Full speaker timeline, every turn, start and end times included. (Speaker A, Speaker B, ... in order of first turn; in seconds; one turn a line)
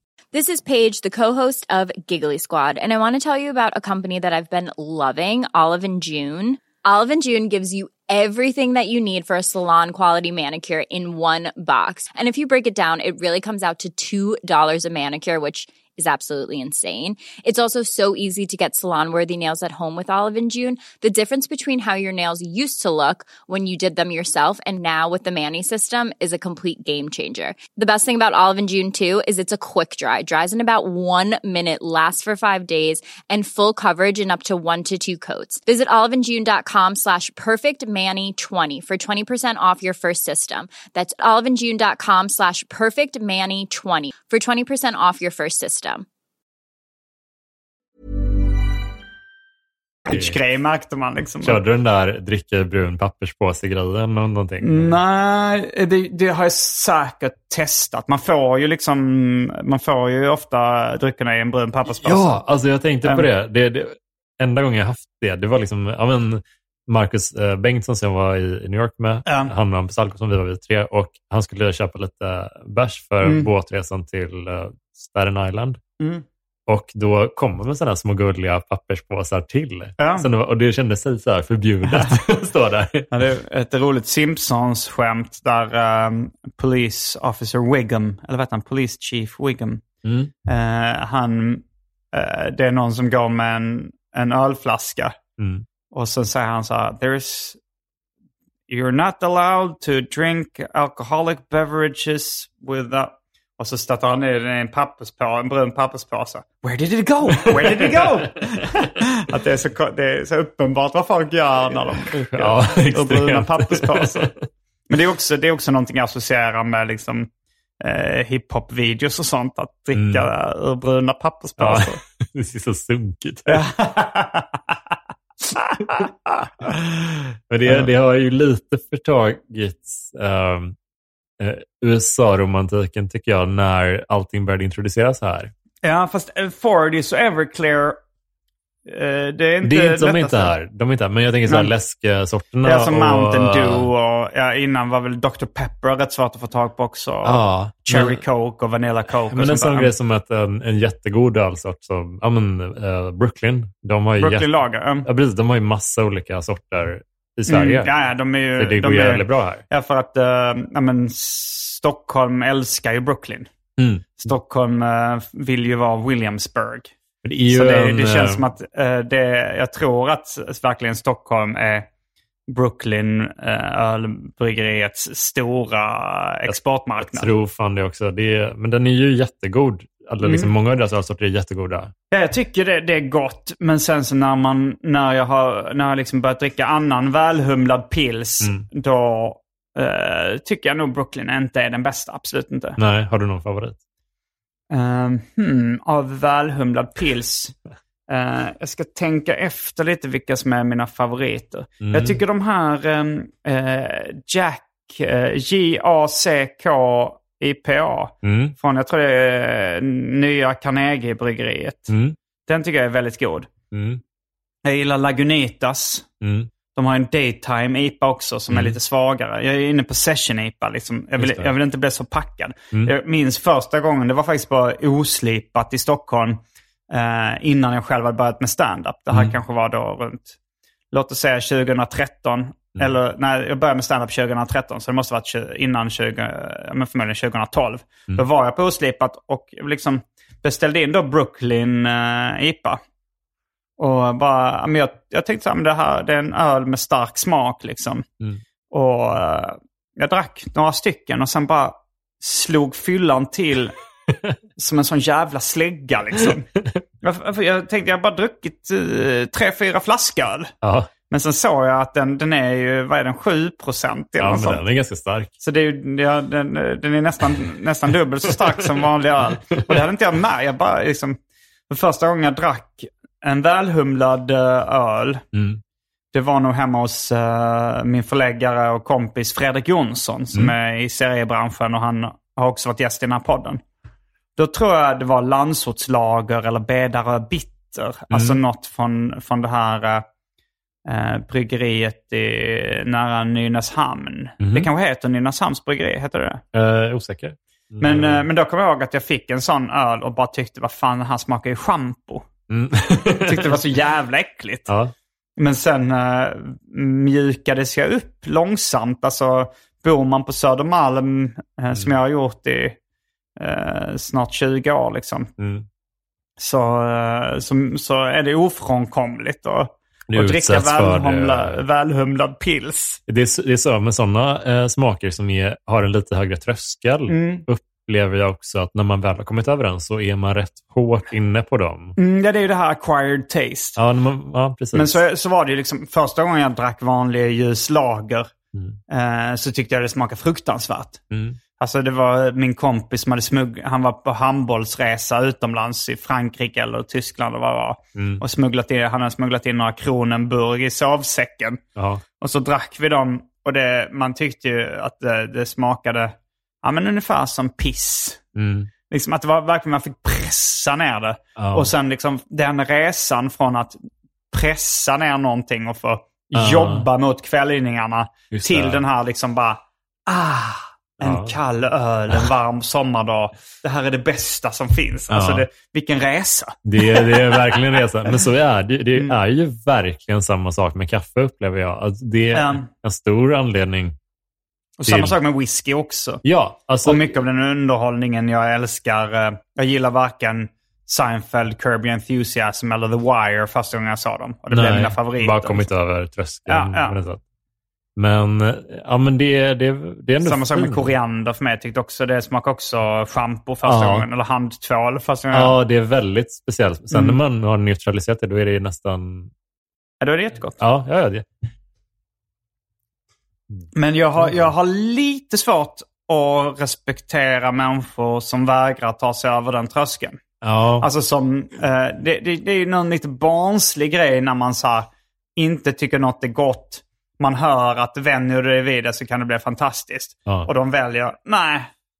Speaker A: 0.3-46.1
Speaker B: 50.1-51.6
Speaker C: 50.1-50.4
Speaker C: 51.4-55.0
Speaker B: 54.6-62.3
Speaker C: 62.0-75.8
Speaker B: 69.3-69.5
Speaker B: 73.2-73.5
Speaker B: 76.0-76.2
Speaker C: 76.7-83.1
Speaker B: 80.0-80.3
Speaker B: 83.1-89.8
Speaker C: 90.0-90.3
Speaker B: 90.5-95.2
Speaker C: 95.4-95.7
Speaker B: 95.9-97.6
Speaker B: 98.7-114.3
Speaker C: 107.3-108.7
Speaker C: 112.1-114.5
Speaker B: 114.9-117.3
Speaker B: 117.8-122.0
Speaker C: 119.9-120.3
Speaker C: 121.6-123.7
Speaker B: 123.5-124.5
Speaker B: 125.5-127.0
Speaker C: 127.5-130.8
Speaker C: 131.4-135.5
Speaker B: 135.8-138.0
Speaker B: 138.9-140.5
Speaker C: 139.6-143.9
Speaker B: 141.5-141.7
Speaker B: 142.6-149.9
Speaker C: 147.2-148.2
Speaker C: 149.3-157.9
Speaker B: 154.2-155.1
Speaker B: 157.5-163.5
Speaker C: 158.6-159.6
Speaker C: 163.8-164.3
Speaker B: 164.2-166.9
Speaker C: 167.2-168.4
Speaker B: 167.5-171.9
Speaker B: 172.5-177.3
Speaker C: 176.5-181.9
Speaker B: 180.2-180.5
Speaker B: 182.1-192.8
Speaker C: 188.4-188.7
Speaker C: 192.8-193.8
Speaker B: 194.7-197.5
Speaker B: 198.1-211.9
Speaker C: 201.8-202.2
Speaker C: 208.2-208.6
Speaker C: 211.9-212.2
Speaker B: 212.5-213.5
Speaker C: 213.7-214.0
Speaker B: 214.7-216.1
Speaker C: 216.2-216.5
Speaker B: 216.8-230.4
Speaker C: 218.5-218.8
Speaker C: 221.2-221.6
Speaker B: 230.9-242.8
Speaker B: 243.8-248.1
Speaker B: 248.7-253.7
Speaker B: 254.6-256.5
Speaker B: 257.0-260.5
Speaker C: 260.6-260.9
Speaker B: 261.1-264.6
Speaker C: 264.2-265.3
Speaker B: 265.4-271.2
Speaker C: 268.4-268.8
Speaker B: 271.7-275.2
Speaker C: 275.3-275.6
Speaker B: 276.1-283.6
Speaker B: 284.4-290.1
Speaker C: 288.1-288.4
Speaker B: 290.9-296.4
Speaker C: 294.4-294.7
Speaker C: 296.5-298.3
Speaker B: 297.8-302.2
Speaker C: 302.5-303.6
Speaker B: 303.3-304.7
Speaker C: 304.7-304.9
Speaker B: 305.4-312.8
Speaker B: 313.4-315.3
Speaker C: 315.4-315.7
Speaker B: 316.4-323.0
Speaker C: 320.1-321.6
Speaker C: 323.1-332.0
Speaker B: 327.1-327.4
Speaker B: 332.0-333.8
Speaker C: 333.8-335.0
Speaker B: 334.7-338.3
Speaker C: 338.5-338.8
Speaker B: 338.9-341.0
Speaker C: 341.1-341.4
Speaker B: 341.6-351.6
Speaker C: 347.9-348.2
Speaker C: 351.8-352.0
Speaker B: 352.2-358.2
Speaker C: 358.4-358.7
Speaker B: 358.9-363.8
Speaker C: 361.4-361.7
Speaker B: 364.3-378.1
Speaker C: 366.3-366.9
Speaker C: 368.3-368.8
Speaker C: 371.0-371.4
Speaker C: 375.1-375.5
Speaker C: 376.6-384.0
Speaker B: 382.3-382.7
Speaker B: 384.8-386.2
Speaker C: 384.8-385.2
Speaker C: 386.2-387.1
Speaker B: 386.8-395.7
Speaker C: 394.5-397.2
Speaker B: 396.5-397.0
Speaker C: 398.0-400.9
Speaker B: 400.2-405.6
Speaker C: 403.6-404.1
Speaker C: 405.3-409.3
Speaker B: 406.9-407.2
Speaker B: 410.0-410.6
Speaker C: 410.6-411.3
Speaker C: 413.5-414.5
Speaker B: 413.8-420.2
Speaker C: 420.4-420.9
Speaker B: 420.8-431.7